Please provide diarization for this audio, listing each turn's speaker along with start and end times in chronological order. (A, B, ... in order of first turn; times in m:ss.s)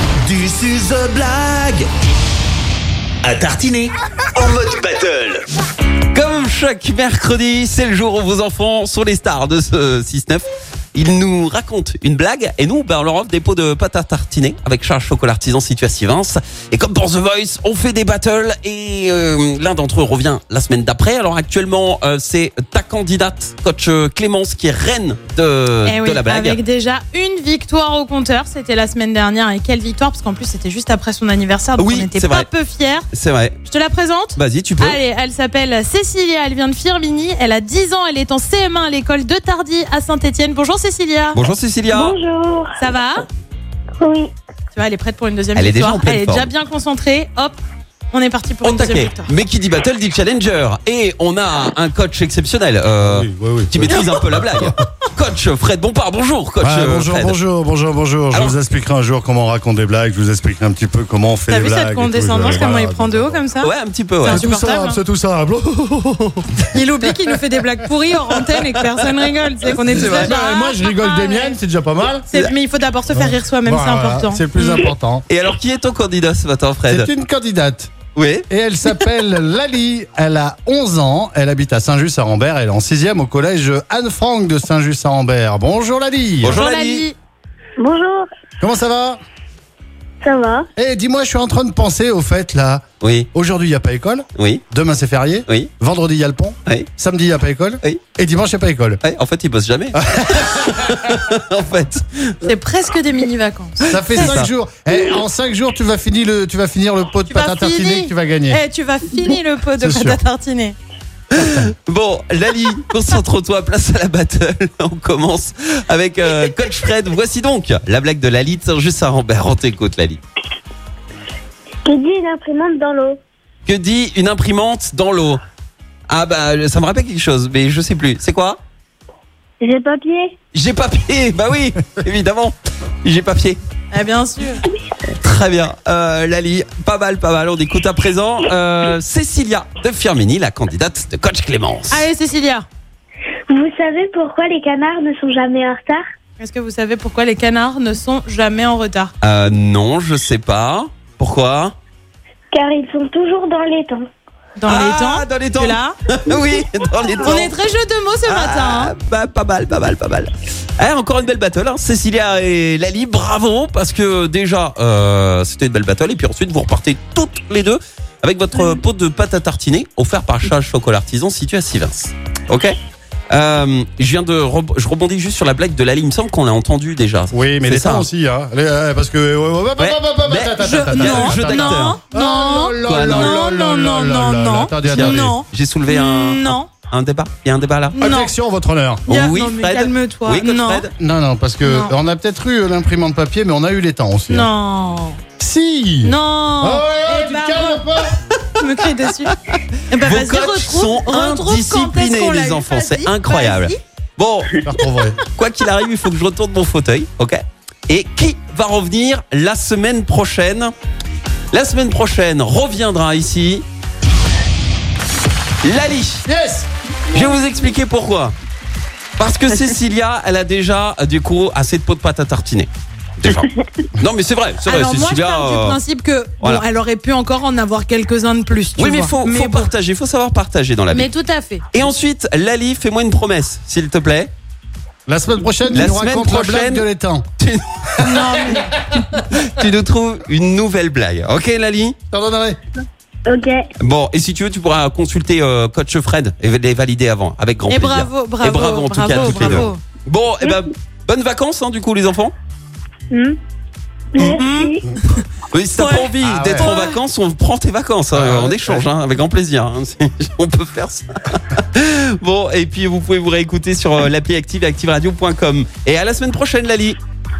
0:00.2-0:01.9 A
0:03.2-0:05.4 A
0:06.1-0:26.6 B
0:25.8-0:33.1 C
0:31.8-0:32.5 B
0:33.1-0:33.6 B
0:33.6-0:41.4 C
0:34.4-0:35.0 B
0:41.3-0:42.2 B
0:41.9-0:42.8 D
0:42.8-0:43.3 C
0:44.0-0:44.3 D
0:44.7-0:47.6 C
0:45.5-0:46.5 B
0:48.1-0:49.3 C
0:48.6-0:57.4 B
0:53.0-0:54.8 E
0:56.6-1:03.4 E
1:01.5-1:05.0 C
1:03.6-1:04.4 B
1:04.3-1:07.4 E
1:06.7-1:11.6 C
1:09.9-1:12.3 E
1:12.3-1:14.8 C
1:13.1-1:15.2 E
1:15.3-1:17.1 B
1:16.9-1:17.9 E
1:18.1-1:19.0 B
1:18.5-1:26.6 E
1:26.4-1:27.0 B
1:26.5-1:27.1 C
1:27.8-1:28.2 D
1:28.6-1:29.2 E
1:30.2-1:30.6 D
1:30.8-1:39.0 E
1:33.0-1:33.3 B
1:34.4-1:34.6 B
1:39.0-1:42.4 B
1:39.9-1:41.0 E
1:42.4-1:44.4 C
1:43.9-1:48.6 E
1:44.0-1:44.5 B
1:47.3-1:50.7 C
1:49.8-1:50.2 E
1:51.3-2:00.2 B
1:51.4-1:51.7 E
2:01.8-2:03.2 D
2:03.6-2:05.4 B
2:06.1-2:08.6 B
2:09.6-2:10.3 D
2:10.5-2:13.6 B
2:13.9-2:14.6 C
2:15.2-2:22.0 B
2:21.9-2:22.6 C
2:23.5-2:26.0 D
2:26.4-2:29.1 C
2:29.2-2:31.7 B
2:32.5-2:34.0 D
2:34.6-2:36.0 C
2:34.7-2:37.5 B
2:37.2-2:38.9 C
2:38.3-2:52.8 B
2:53.3-2:58.1 B
2:57.3-3:05.4 E
2:59.8-3:02.0 B
3:00.6-3:06.7 C
3:02.8-3:03.4 B
3:04.8-3:08.0 B
3:07.9-3:08.3 C
3:08.0-3:09.1 E
3:09.1-3:10.9 B
3:09.1-3:10.8 C
3:10.9-3:14.5 E
3:11.6-3:11.9 C
3:14.3-3:15.2 C
3:15.4-3:18.1 E
3:16.0-3:17.8 C
3:18.6-3:19.3 C
3:19.9-3:23.8 C
3:20.0-3:24.6 B
3:24.6-3:25.2 E
3:25.2-3:30.7 B
3:31.5-3:33.6 B
3:35.6-3:36.3 B
3:36.3-3:36.7 E
3:37.1-3:38.3 B
3:39.2-3:45.8 B
3:44.6-3:49.7 C
3:48.8-3:51.1 B
3:50.9-3:51.9 C
3:51.7-3:54.3 B
3:55.1-3:57.2 E
3:55.7-3:56.8 B
3:57.4-3:58.5 B
3:58.0-3:58.8 C
3:59.1-4:02.0 B
4:02.1-4:02.6 E
4:03.3-4:03.6 D
4:03.8-4:12.3 B
4:07.6-4:09.8 C
4:09.1-4:09.7 E
4:13.1-4:13.4 D
4:14.1-4:14.9 D
4:14.2-4:14.8 C
4:15.5-4:27.0 B
4:15.8-4:17.0 C
4:16.2-4:16.7 E
4:18.1-4:18.9 E